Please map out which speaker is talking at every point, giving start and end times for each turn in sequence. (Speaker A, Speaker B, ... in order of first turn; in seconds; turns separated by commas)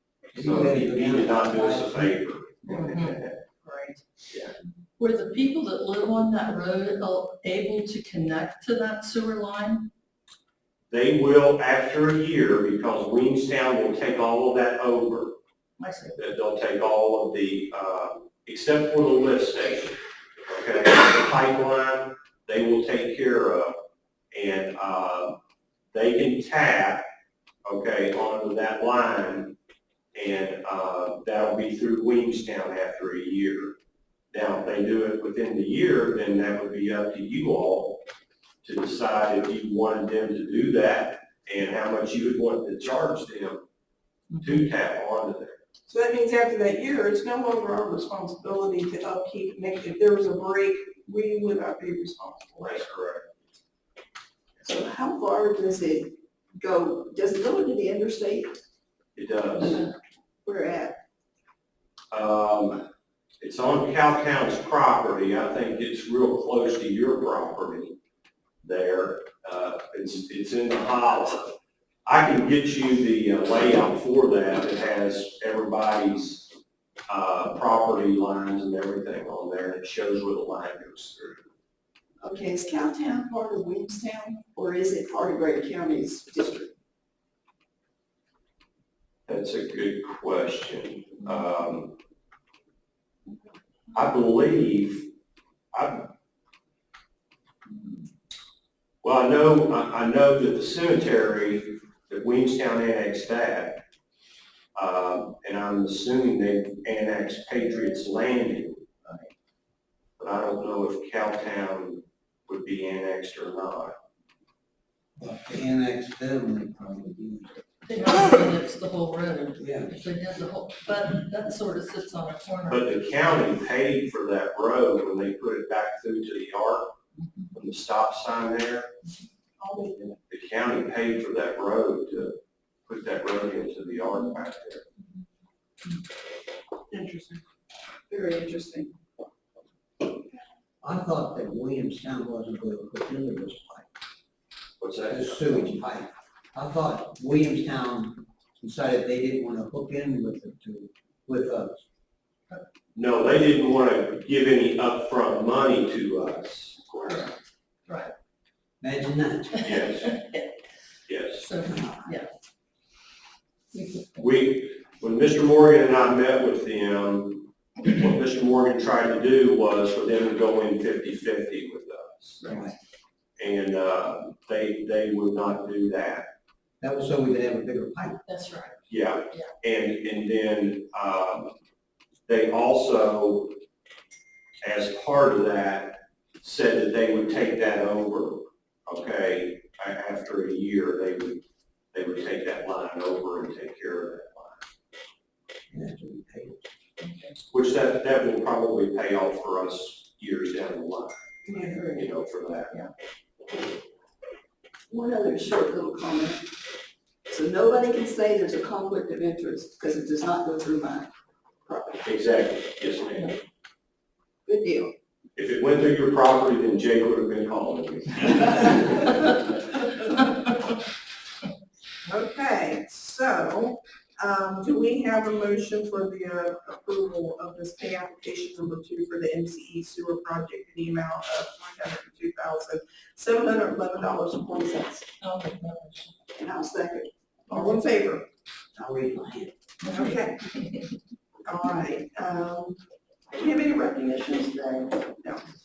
Speaker A: 0.3-2.1, Speaker B: 0.3-3.4, Speaker C: 2.7-4.0, Speaker B: 4.3-4.5, Speaker C: 5.0-9.9, Speaker B: 10.9-15.3, Speaker C: 15.8-16.2, Speaker B: 16.2-20.0, Speaker B: 20.5-23.7, Speaker B: 24.3-25.4, Speaker B: 25.9-27.0, Speaker B: 27.6-29.5, Speaker B: 30.1-33.8, Speaker B: 34.3-38.0, Speaker B: 38.6-43.6, Speaker C: 44.3-44.5, Speaker B: 44.4-45.6, Speaker D: 45.9-52.8, Speaker B: 52.6-53.3, Speaker E: 54.6-58.6, Speaker B: 59.1-59.9, Speaker E: 60.4-61.0, Speaker B: 62.1-62.8, Speaker B: 63.4-68.0, Speaker B: 68.6-71.5, Speaker B: 72.0-76.5, Speaker B: 77.1-81.4, Speaker E: 82.2-86.7, Speaker B: 89.3-91.9, Speaker B: 93.9-95.1, Speaker B: 95.7-96.0, Speaker B: 99.0-103.8, Speaker B: 104.8-108.8, Speaker C: 109.0-109.3, Speaker B: 110.2-113.9, Speaker A: 115.2-117.6, Speaker C: 117.8-122.9, Speaker A: 119.6-119.9, Speaker B: 122.7-126.9, Speaker B: 127.5-128.9, Speaker D: 129.6-130.1, Speaker B: 130.2-134.8, Speaker D: 136.9-137.2, Speaker E: 137.0-137.4, Speaker E: 138.1-138.9, Speaker A: 140.8-143.9, Speaker B: 144.8-145.7, Speaker A: 145.1-151.8, Speaker B: 152.9-157.3, Speaker C: 157.0-157.3, Speaker C: 157.8-158.1, Speaker A: 158.8-159.6, Speaker C: 159.6-160.5, Speaker B: 159.6-160.1, Speaker B: 161.1-161.5, Speaker C: 161.4-162.3, Speaker A: 161.7-162.0, Speaker C: 163.7-164.1, Speaker B: 164.1-172.4, Speaker A: 172.4-172.7, Speaker B: 173.4-176.3, Speaker A: 176.8-178.2, Speaker C: 178.3-179.5, Speaker B: 178.9-181.5, Speaker B: 182.3-183.6, Speaker B: 184.6-191.4, Speaker B: 191.9-194.6, Speaker A: 195.7-196.7, Speaker C: 197.0-197.3, Speaker B: 197.5-202.8, Speaker E: 201.4-202.1, Speaker E: 204.9-206.4, Speaker E: 207.3-211.1, Speaker E: 211.7-212.1, Speaker B: 212.0-213.4, Speaker E: 214.5-214.9, Speaker B: 215.3-219.2, Speaker D: 222.1-235.1, Speaker C: 235.2-236.1, Speaker E: 236.3-237.1, Speaker D: 237.5-238.2, Speaker A: 238.7-239.5, Speaker C: 239.8-240.9, Speaker D: 239.9-240.4, Speaker D: 241.4-242.8, Speaker D: 243.3-245.5